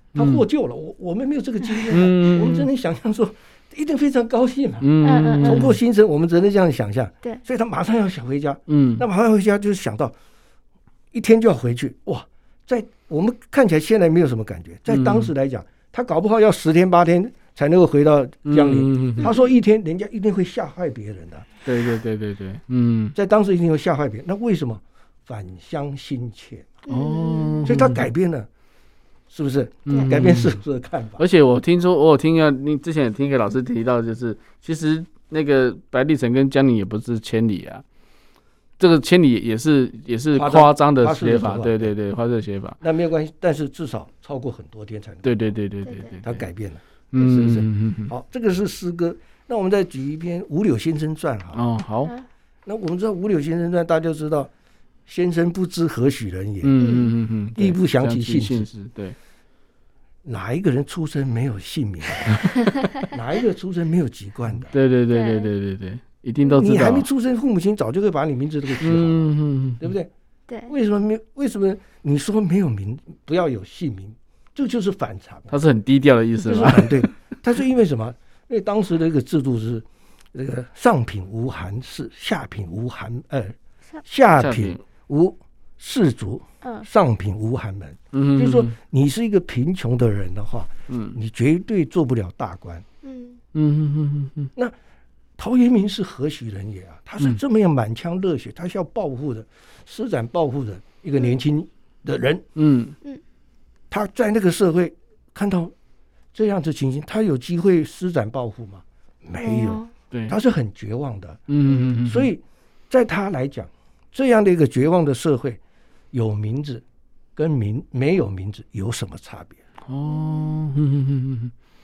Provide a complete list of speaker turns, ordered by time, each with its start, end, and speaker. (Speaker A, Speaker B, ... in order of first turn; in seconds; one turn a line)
Speaker A: 0.1-0.4
Speaker B: 0.1-10.1
Speaker A: 1.9-2.7
Speaker A: 4.8-5.8
Speaker C: 5.0-5.7
Speaker A: 8.7-9.0
Speaker B: 11.1-21.5
Speaker A: 14.9-15.3
Speaker A: 18.4-19.3
Speaker C: 19.2-19.4
Speaker A: 21.6-23.1
Speaker B: 23.1-26.8
Speaker C: 26.9-27.7
Speaker A: 26.9-28.1
Speaker B: 27.6-28.5
Speaker B: 29.3-31.2
Speaker A: 29.9-30.6
Speaker C: 29.9-30.1
Speaker A: 31.2-37.8
Speaker A: 38.8-42.8
Speaker B: 40.3-41.9
Speaker B: 42.8-45.3
Speaker A: 45.2-46.4
Speaker C: 45.8-46.2
Speaker B: 46.2-51.6
Speaker A: 47.1-48.1
Speaker A: 51.5-52.1
Speaker B: 52.6-54.5
Speaker B: 55.0-56.7
Speaker A: 56.6-59.1
Speaker C: 56.8-57.1
Speaker B: 57.5-58.7
Speaker B: 60.2-64.7
Speaker A: 64.7-67.1
Speaker C: 65.1-65.5
Speaker B: 66.5-70.1
Speaker A: 68.8-69.9
Speaker C: 70.5-70.7
Speaker B: 70.7-75.5
Speaker A: 75.5-77.1
Speaker B: 76.4-92.8
Speaker A: 84.4-84.8
Speaker C: 86.6-86.9
Speaker A: 88.1-88.7
Speaker A: 90.9-91.2
Speaker C: 93.0-93.4
Speaker A: 93.5-94.5
Speaker B: 95.4-102.4
Speaker A: 102.5-103.0
Speaker B: 103.9-105.7
Speaker B: 106.3-111.4
Speaker C: 109.4-109.9
Speaker A: 110.1-110.3
Speaker A: 111.5-112.3
Speaker C: 111.7-112.0
Speaker B: 112.0-115.6
Speaker B: 116.1-116.8
Speaker B: 117.3-119.6
Speaker A: 119.8-121.5
Speaker C: 120.0-120.6